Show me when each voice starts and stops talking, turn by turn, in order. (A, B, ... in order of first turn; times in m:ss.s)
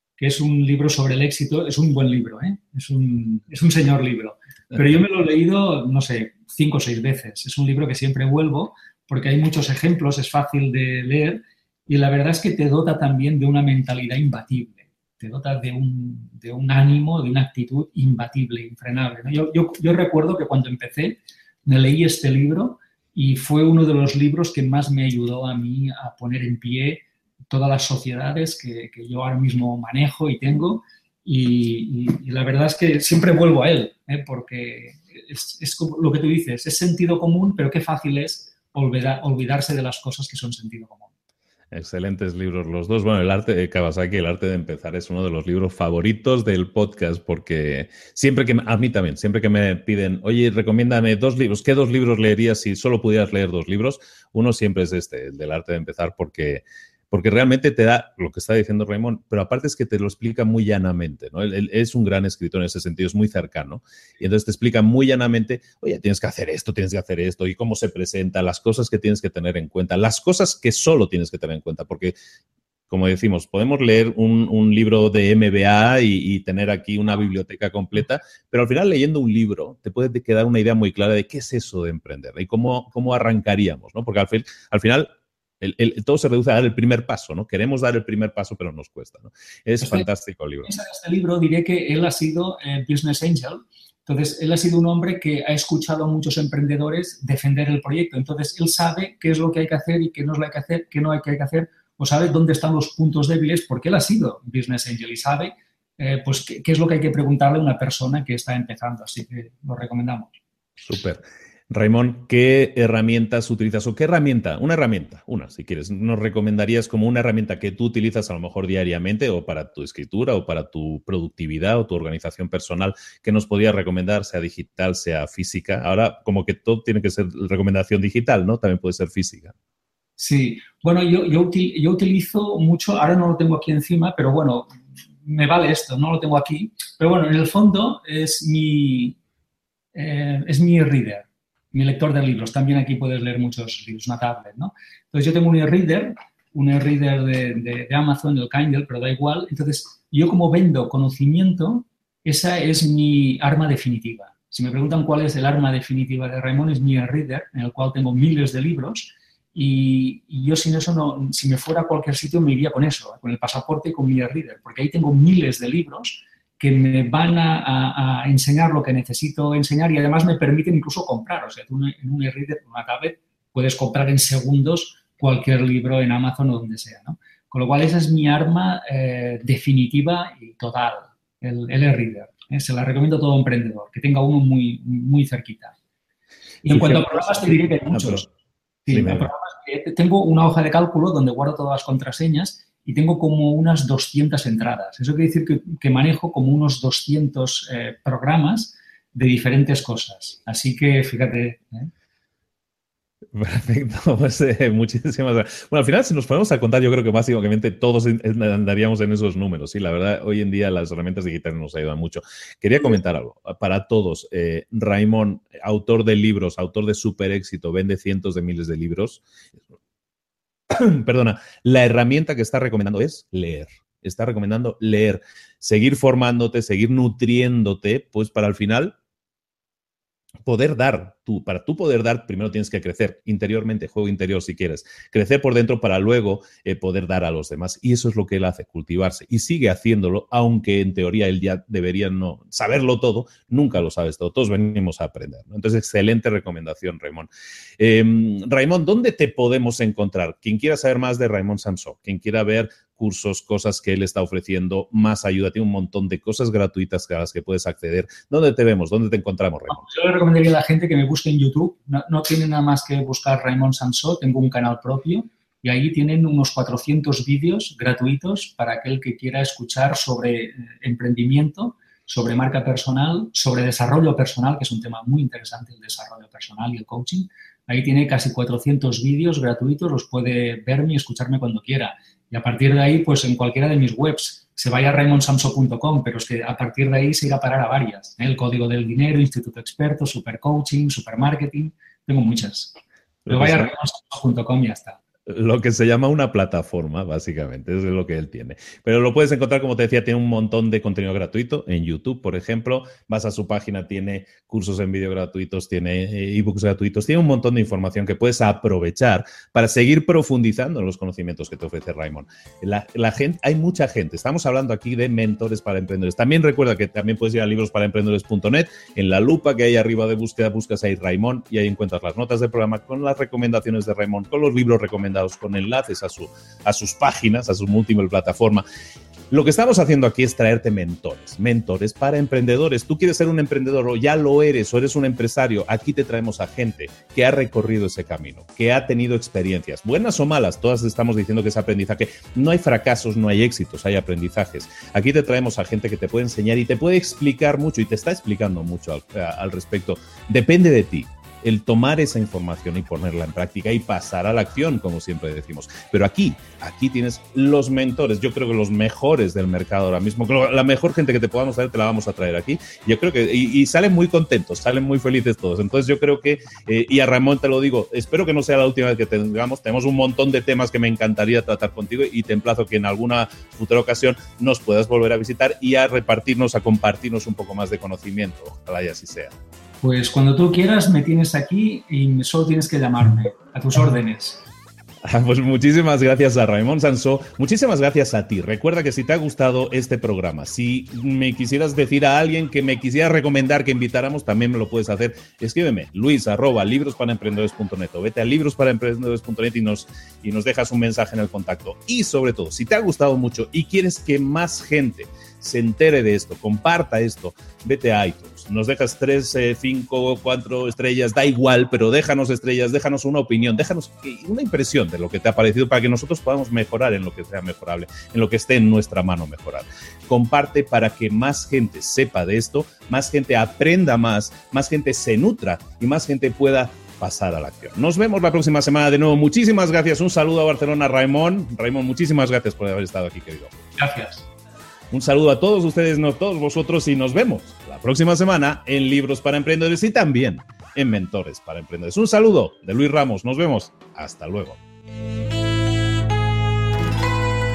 0:00.2-0:41.1 A
0:41.7-1:12.2 B
1:12.9-1:30.7 B
1:29.8-1:30.1 A
1:30.6-1:50.3 A
1:50.8-2:09.5 B
2:10.2-2:14.7 A
2:15.2-2:19.2 A
2:19.9-3:05.7 A
3:06.6-3:08.2 A
3:06.7-3:08.3 B
3:08.8-3:21.9 A
3:08.9-3:09.3 B
3:23.3-3:39.2 B
3:40.7-3:49.0 B
3:50.4-4:19.8 B
4:19.7-4:52.8 A
4:53.2-4:53.7 B
4:53.3-4:55.0 A
4:55.3-5:28.6 B
5:29.3-6:19.3 B
6:19.8-6:24.4 A
6:25.0-7:13.6 B
7:13.8-7:14.2 A
7:14.9-7:24.6 B